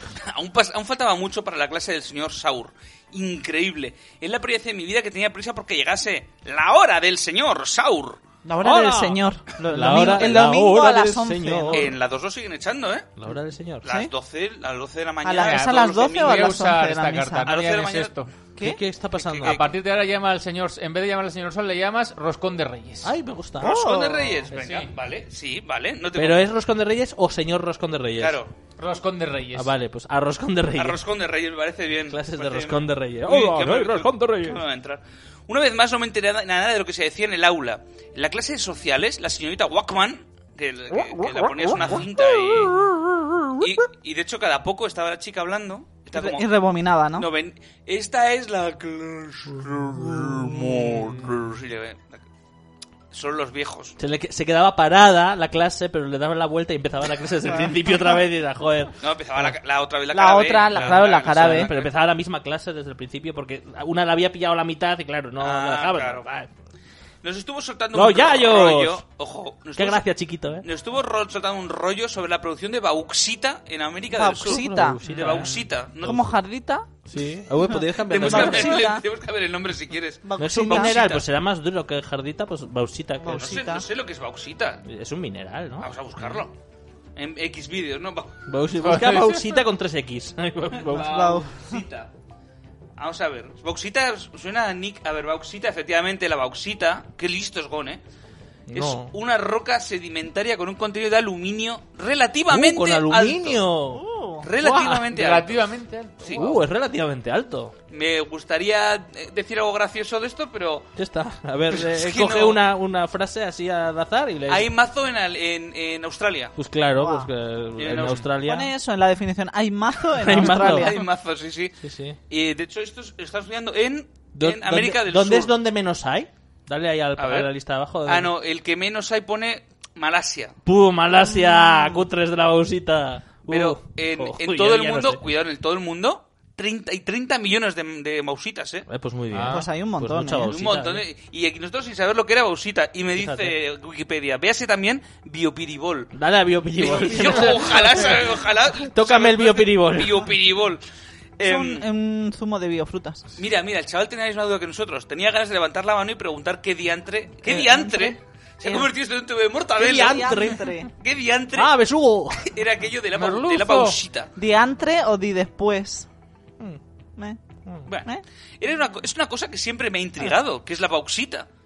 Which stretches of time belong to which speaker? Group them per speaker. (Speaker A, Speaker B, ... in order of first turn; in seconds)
Speaker A: 0.2-8.2, 11.7-13.1, 13.8-16.6, 17.4-18.1, 19.2-19.8, 23.6-26.5, 28.2-28.5, 30.8-42.9, 43.6-46.5, 47.1-52.2, 53.1-54.0, 59.0-61.9, 65.4-66.2, 67.2-70.0, 70.6-76.2, 78.0-81.2, 83.3-84.8, 85.8-86.5, 87.2-88.4, 90.8-92.1, 93.0-98.0, 98.7-103.6, 104.4-105.6, 106.2-106.5, 107.9-110.9, 111.7-112.6, 114.5-116.5, 117.8-118.3, 120.3-121.8, 122.3-125.5, 127.2-127.5, 128.1-130.6, 133.5-138.9, 140.5-146.1, 146.8-150.8, 151.4-151.9, 153.4-160.4, 161.0-161.7, 162.4-164.3, 167.9-171.5
Speaker B: 8.4-11.9, 15.2-17.5, 23.6-24.4, 46.1-47.3, 60.1-61.7, 74.1-75.0, 76.0-76.9, 77.7-79.0, 80.2-81.0, 83.2-83.8, 90.9-91.8, 103.9-104.5, 117.0-117.3, 118.4-121.0, 139.5-140.5, 147.2-147.8, 151.4-153.2, 157.7-158.9, 159.8-160.9, 164.4-166.1
Speaker C: 8.6-12.0, 13.2-13.8, 18.6-19.6, 23.0-23.8, 26.1-28.4, 29.5-31.0, 32.1-34.6, 41.1-43.7, 49.9-51.2, 54.0-59.5, 60.7-66.5, 67.9-69.0, 69.8-70.6, 74.4-76.3, 77.1-78.9, 80.4-83.6, 84.8-85.9, 88.5-91.2, 98.7-99.1, 102.5-104.0, 104.6-105.2, 106.3-107.7, 111.0-114.7, 116.6-118.7, 120.1-121.0, 121.8-122.2, 124.3-128.3, 130.6-135.2, 138.9-141.1, 143.2-143.6, 146.1-150.3, 157.4-157.9, 159.8-160.7, 161.6-162.5
Speaker D: 15.4-18.3, 19.4-23.1, 24.5-24.9, 28.8-29.7, 75.1-75.5, 88.8-89.6, 105.1-106.6, 139.3-139.6, 163.1-164.0